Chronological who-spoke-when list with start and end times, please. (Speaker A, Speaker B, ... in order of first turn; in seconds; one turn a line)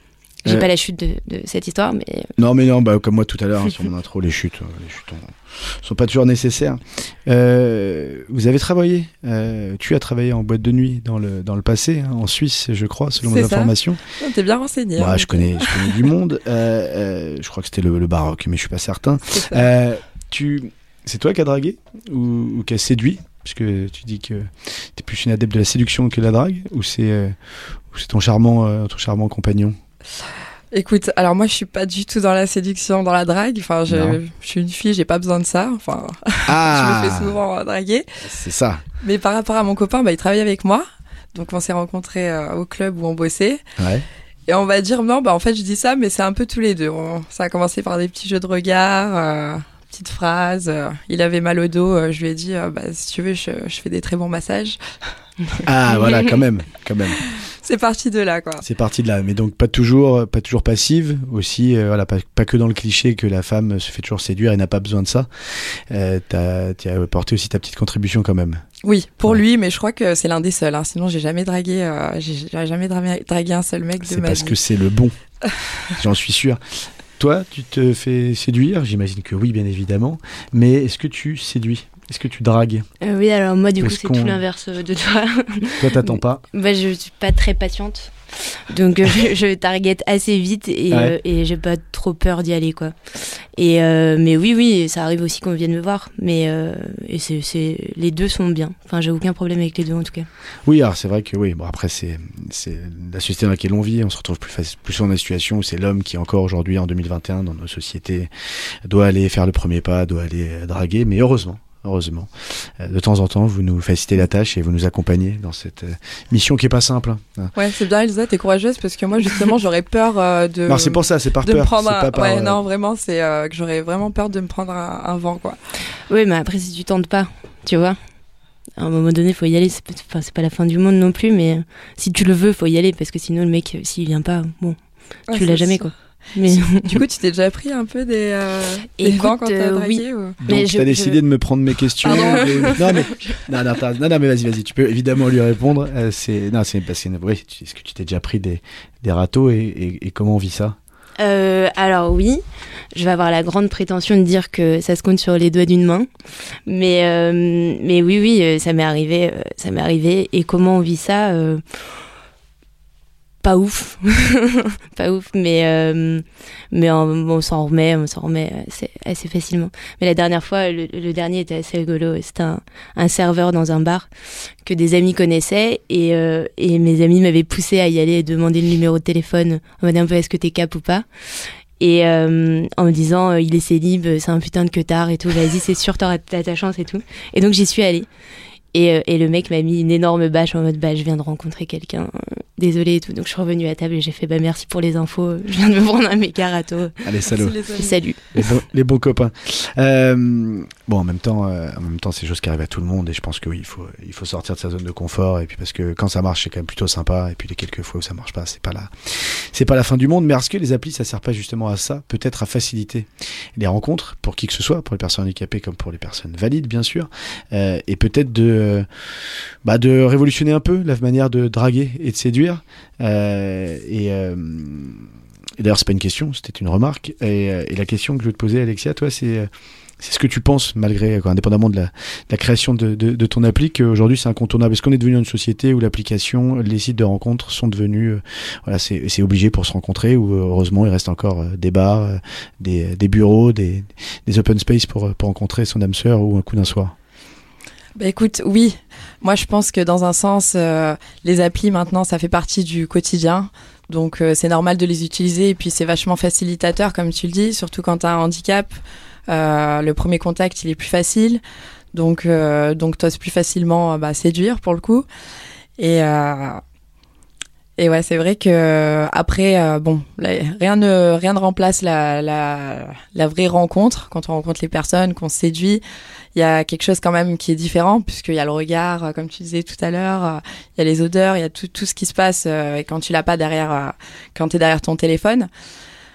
Speaker A: 0.4-2.3
Speaker B: 2.4-14.0
Speaker C: 13.2-16.0
Speaker B: 15.0-27.4
Speaker C: 19.3-19.6
Speaker B: 27.9-29.8
Speaker C: 30.7-38.0
Speaker B: 33.9-34.2
Speaker B: 36.5-37.4
Speaker B: 38.2-38.8
Speaker C: 39.0-43.6
Speaker B: 43.8-44.0
Speaker C: 44.5-54.8
Speaker B: 55.6-57.2
Speaker C: 57.6-58.6
Speaker B: 58.6-68.6
Speaker C: 68.8-74.5
Speaker B: 74.0-75.1
Speaker B: 76.0-76.6
Speaker B: 77.2-82.9
Speaker A: 83.0-100.3
Speaker B: 83.8-84.4
Speaker B: 85.8-86.4
Speaker B: 90.9-91.2
Speaker B: 100.7-108.3
Speaker B: 108.8-117.5
Speaker C: 117.5-125.6
Speaker B: 120.7-122.6
Speaker A: 126.1-128.0
Speaker A: 128.8-134.8
Speaker C: 135.3-135.9
Speaker A: 135.3-137.0
Speaker C: 136.5-140.4
Speaker A: 139.0-141.2
Speaker B: 140.4-150.8
Speaker A: 142.0-142.8
Speaker C: 142.0-143.1
Speaker A: 151.2-152.4
Speaker A: 152.9-156.1
Speaker A: 156.7-161.6
Speaker A: 163.4-174.1
Speaker A: 174.6-181.1
Speaker A: 181.8-188.1
Speaker A: 188.7-196.9
Speaker B: 197.0-197.6
Speaker C: 197.3-197.9
Speaker A: 197.8-198.5
Speaker B: 198.3-218.9
Speaker B: 219.6-225.1
Speaker B: 225.6-229.5
Speaker B: 230.0-246.9
Speaker C: 248.0-258.8
Speaker C: 259.3-261.4
Speaker C: 261.9-265.1
Speaker C: 265.8-266.6
Speaker C: 267.8-275.8
Speaker C: 276.3-285.5